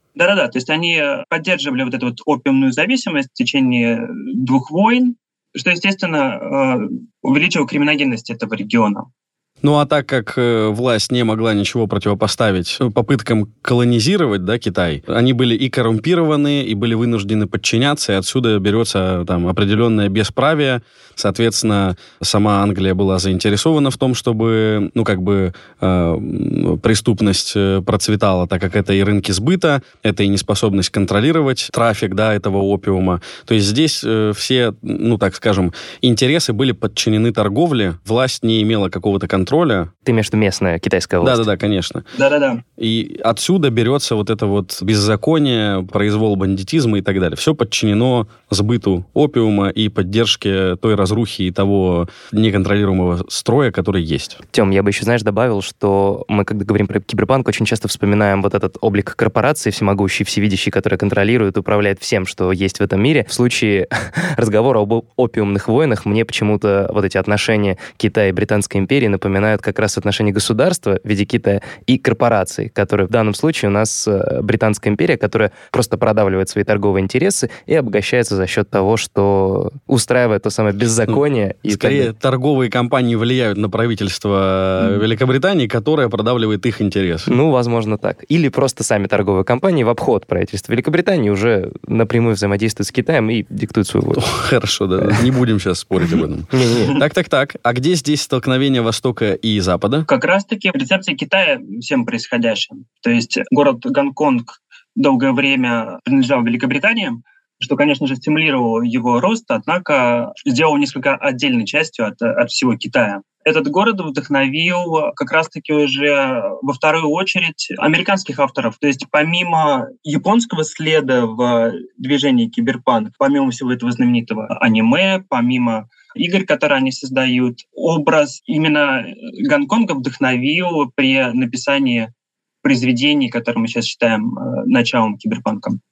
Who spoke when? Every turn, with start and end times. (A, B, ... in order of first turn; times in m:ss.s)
0:00.2-0:09.1 A
0:09.6-0:39.9 B
0:40.0-0:41.4 C
0:41.2-0:42.0 B
0:42.1-0:42.6 A
0:42.8-0:54.4 B
0:54.5-1:22.1 C
1:21.1-1:27.3 B
1:27.3-1:34.2 C
1:34.2-1:40.1 B
1:36.1-1:36.9 C
1:40.1-2:12.1 A
2:12.6-2:15.8 A